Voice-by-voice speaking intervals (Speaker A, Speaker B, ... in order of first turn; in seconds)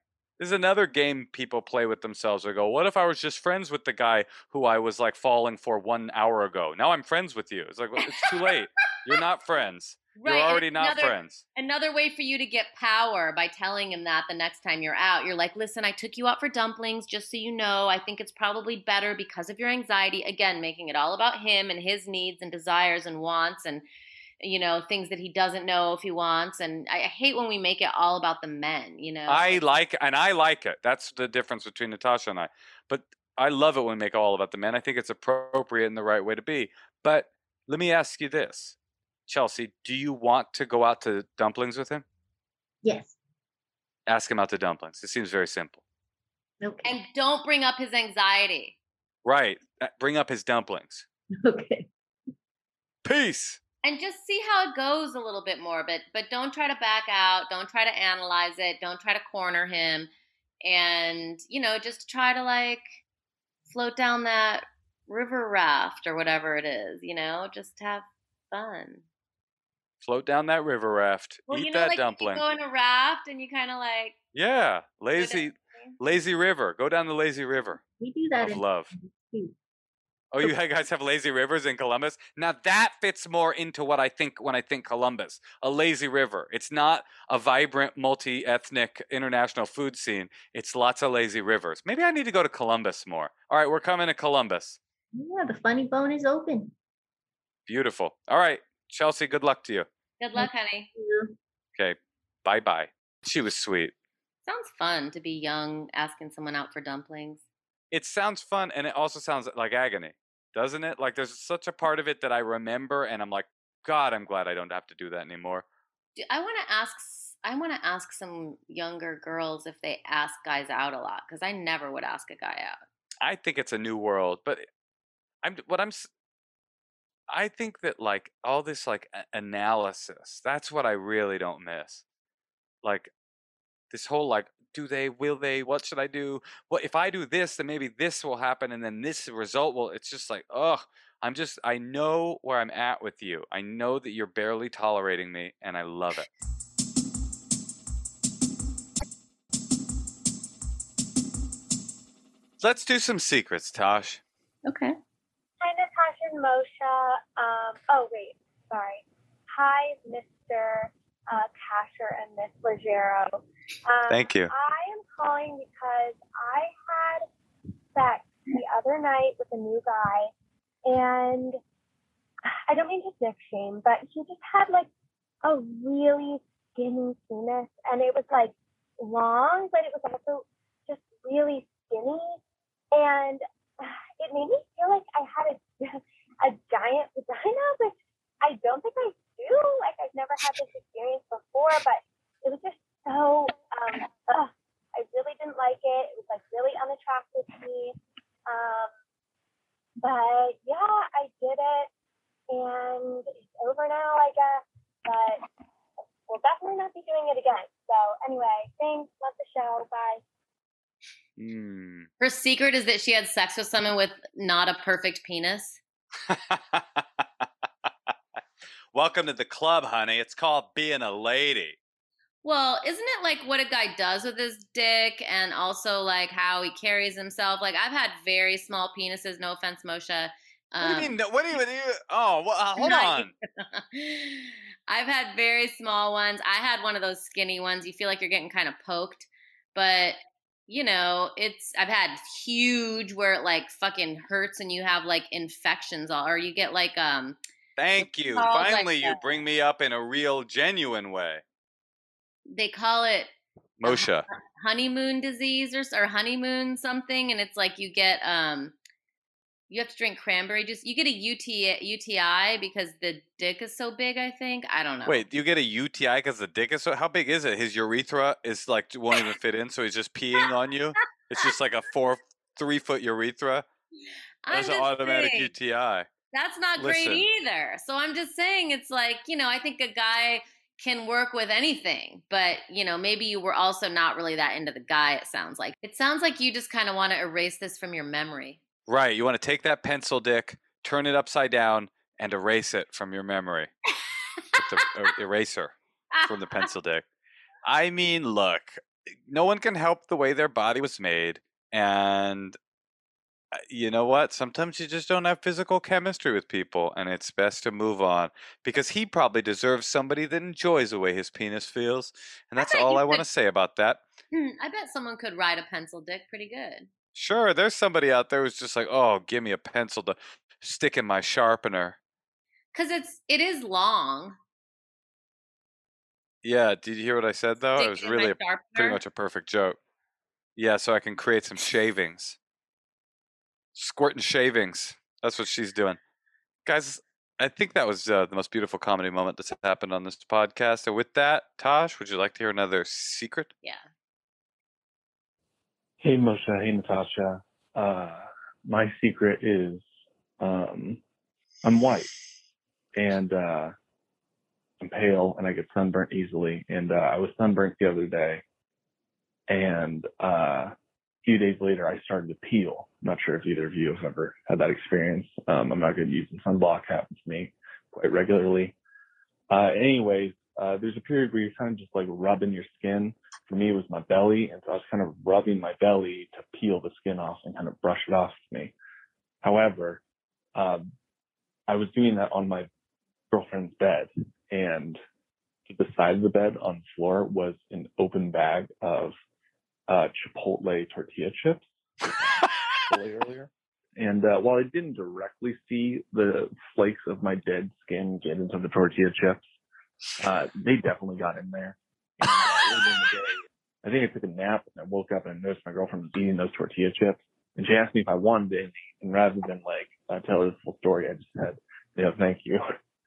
Speaker A: 0.4-11.4, 29.3-38.8, 39.3-42.0, 44.1-45.8, 49.2-51.0, 53.0-53.6, 70.0-72.4, 74.3-77.8, 78.4-78.9, 80.3-94.8, 97.7-99.9, 101.8-103.9, 107.9-115.7, 123.2-124.7, 125.4-126.1, 127.3-132.0, 132.8-133.1, 133.9-146.3, 152.6-154.2, 164.1-164.5, 211.4-212.1, 216.3-217.0, 218.9-221.8, 230.8-233.3, 247.8-251.4, 253.8-254.2, 265.1-273.6, 274.5-276.1, 276.8-277.2, 288.9-293.7, 294.6-297.0, 297.6-302.6, 303.6-314.0, 317.1-322.0, 326.4-329.8, 330.6-332.4, 333.7-336.0, 336.6-343.5
Speaker B: 10.2-23.8, 24.4-29.6, 46.8-48.7, 53.8-60.1, 60.6-62.9, 63.7-69.0, 71.5-74.1, 75.2-75.9, 100.2-100.9, 104.5-107.4, 116.2-122.8, 154.7-154.9, 212.2-215.8, 222.4-231.1, 232.8-247.4, 248.3-249.2, 252.5-253.3, 253.8-258.8, 259.7-265.2, 274.4-275.5, 276.3-288.6, 296.1-296.6, 312.6-313.2, 314.3-316.9, 322.7-324.4, 327.8-329.0
Speaker C: 42.8-43.1, 46.6-46.9, 51.4-51.9, 78.0-79.5, 95.1-96.7, 100.4-101.3
Speaker D: 155.6-167.2, 167.9-170.3, 170.8-171.6, 172.7-174.9, 175.4-182.4, 182.9-197.9, 198.5-198.9, 200.0-201.9, 202.5-205.4, 206.3-210.2
Speaker E: 346.0-349.8, 350.4-351.0, 351.6-352.1, 352.9-353.7, 354.8-358.4, 359.5-368.8, 369.5-378.7, 379.4-380.0, 380.5-380.9, 381.7-382.7, 383.3-385.0, 385.7-389.1, 389.9-399.4, 400.2-412.6